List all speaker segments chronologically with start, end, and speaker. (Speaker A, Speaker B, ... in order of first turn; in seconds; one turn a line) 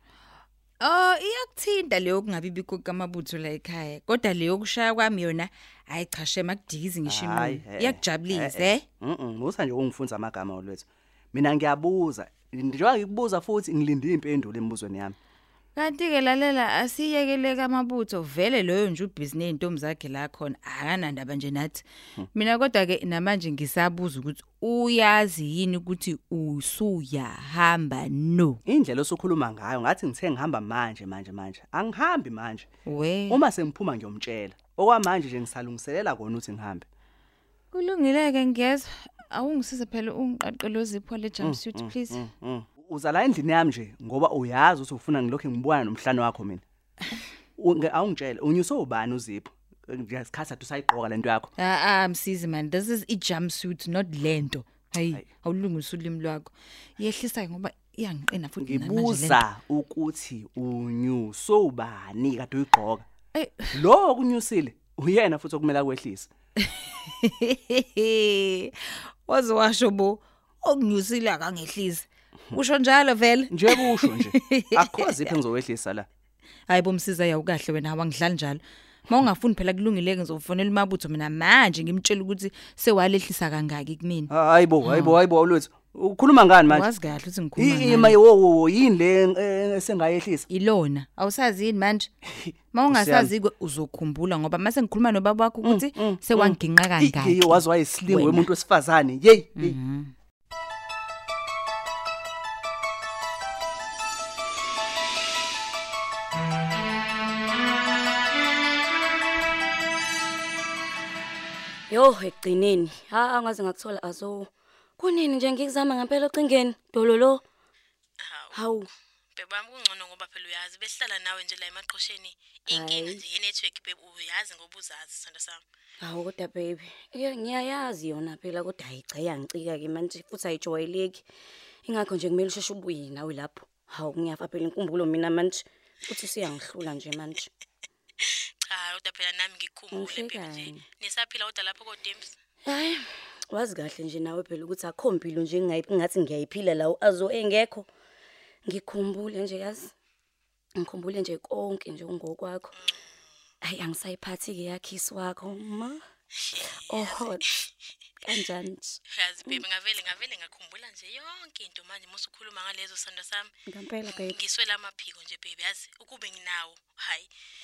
Speaker A: 0.8-8.8
Speaker B: 7.1-15.2
Speaker A: 15.8-28.6
Speaker B: 28.7-32.7
Speaker A: 32.9-33.4
Speaker B: 33.3-36.9
Speaker A: 37.7-42.2
Speaker B: 41.4-46.6
Speaker B: 47.6-51.5
Speaker A: 51.6-59.5
Speaker B: 58.6-63.1
Speaker A: 63.4-63.7
Speaker B: 63.7-66.3
Speaker A: 66.7-75.3
Speaker B: 73.5-76.1
Speaker A: 76.7-84.3
Speaker B: 84.3-86.9
Speaker A: 84.8-85.2
Speaker A: 86.7-88.2
Speaker B: 87.6-90.5
Speaker A: 90.5-92.1
Speaker B: 92.4-93.3
Speaker A: 92.7-98.5
Speaker B: 95.6-99.8
Speaker A: 99.6-100.1
Speaker C: 111.9-117.4
Speaker D: 118.2-125.6
Speaker C: 118.5-118.9
Speaker C: 122.7-123.2
Speaker C: 126.0-131.2
Speaker C: 131.9-137.5
Speaker D: 138.2-142.3
Speaker C: 139.9-140.8
Speaker C: 142.7-147.9
Speaker C: 148.7-149.9
Speaker C: 150.8-152.7
Speaker D: 152.8-153.0
Speaker C: 153.6-156.0
Speaker D: 156.4-157.4
Speaker C: 156.9-157.4
Speaker C: 158.2-159.6
Speaker D: 159.1-163.5
Speaker C: 163.7-164.3
Speaker D: 164.1-167.3